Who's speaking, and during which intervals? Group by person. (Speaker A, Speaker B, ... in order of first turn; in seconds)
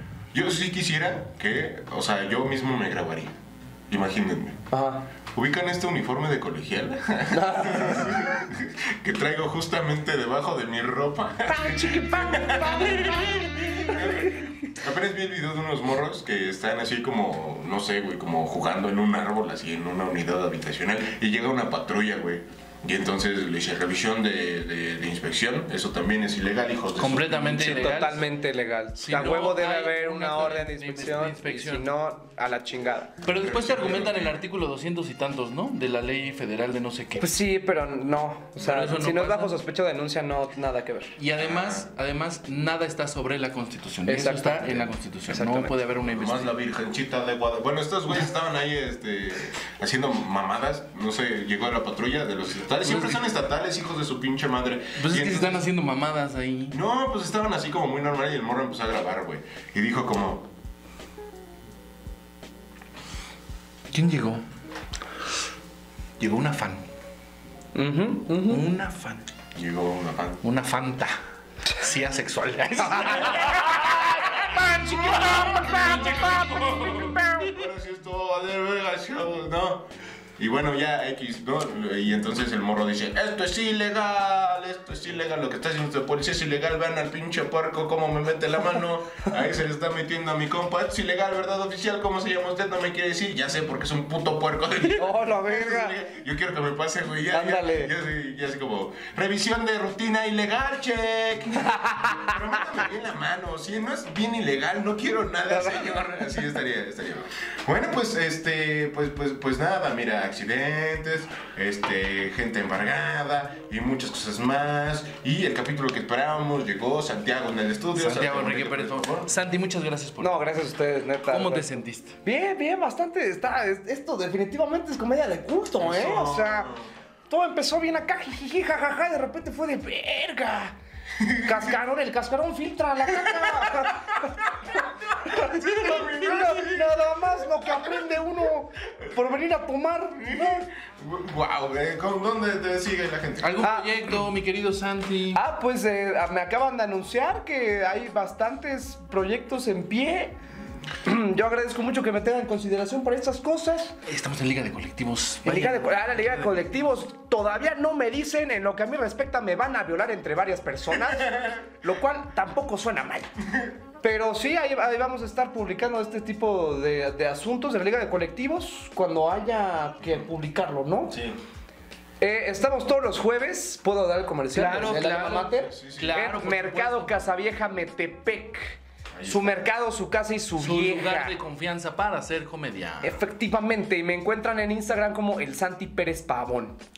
Speaker A: 0.3-3.4, 3.9-4.6, 5.3-27.7, 33.3-34.4, 41.4-41.9, 46.0-55.6, 56.7-60.5, 69.5-70.4, 73.7-79.9, 80.4-119.3, 125.8-126.9, 131.2-131.7, 133.2-134.1, 135.2-137.9, 140.2-143.6, 171.1-171.4, 175.7-176.2, 179.1-179.6
Speaker B: 4.7-5.1, 7.3-8.2, 11.5-14.4, 27.6-33.1, 37.2-41.1, 44.1-45.7, 67.7-68.6, 73.1-77.2, 95.0-96.0, 97.3-97.9, 101.7-102.3, 105.5-106.0, 120.2-121.7, 122.2-126.7, 127.3-130.8, 131.4-134.3, 135.2-140.7, 143.6-143.9, 145.3-150.3, 151.0-153.9, 155.4-163.3, 164.0-171.2, 172.2-181.3, 183.0-186.8
Speaker C: 27.0-28.3, 29.0-31.9, 33.2-37.3, 38.6-39.5, 41.2-46.5, 52.8-53.2, 55.0-56.8, 63.9-64.4, 66.2-66.8, 68.5-69.2, 70.4-71.2, 71.7-77.5, 118.0-120.5, 121.3-122.2, 143.4-145.4, 154.1-156.6, 174.5-177.1, 180.6-183.2